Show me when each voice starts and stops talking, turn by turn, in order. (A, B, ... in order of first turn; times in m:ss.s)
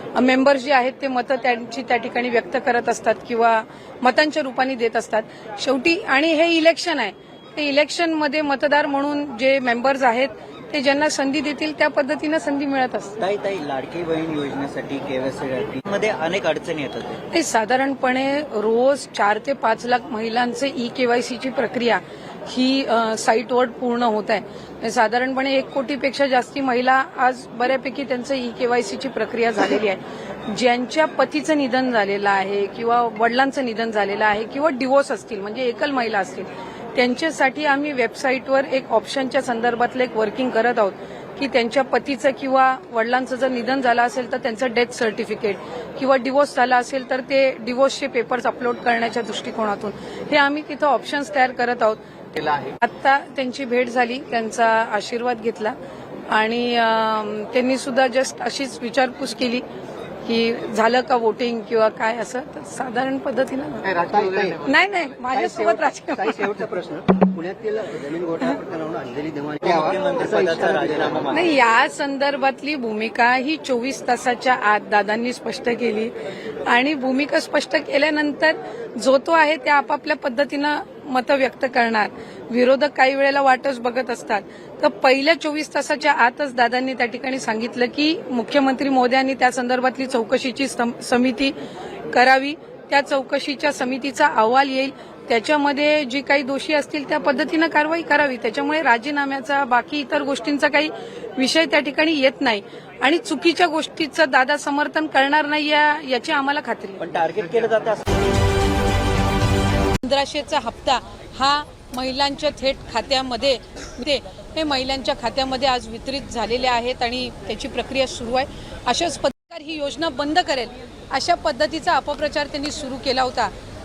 0:00.1-0:13.2 A
0:13.2-0:17.2 B
0:17.3-0:55.8 A
0:56.3-0:59.6 A
1:00.2-1:04.0 A
1:03.9-1:04.6 C
1:04.6-1:06.5 A
1:05.3-1:11.3 C
1:09.6-1:11.5 B
1:11.3-1:16.1 A
1:16.6-1:31.5 A
1:32.1-1:47.0 A
1:47.0-1:48.3 B
1:50.0-2:03.5 A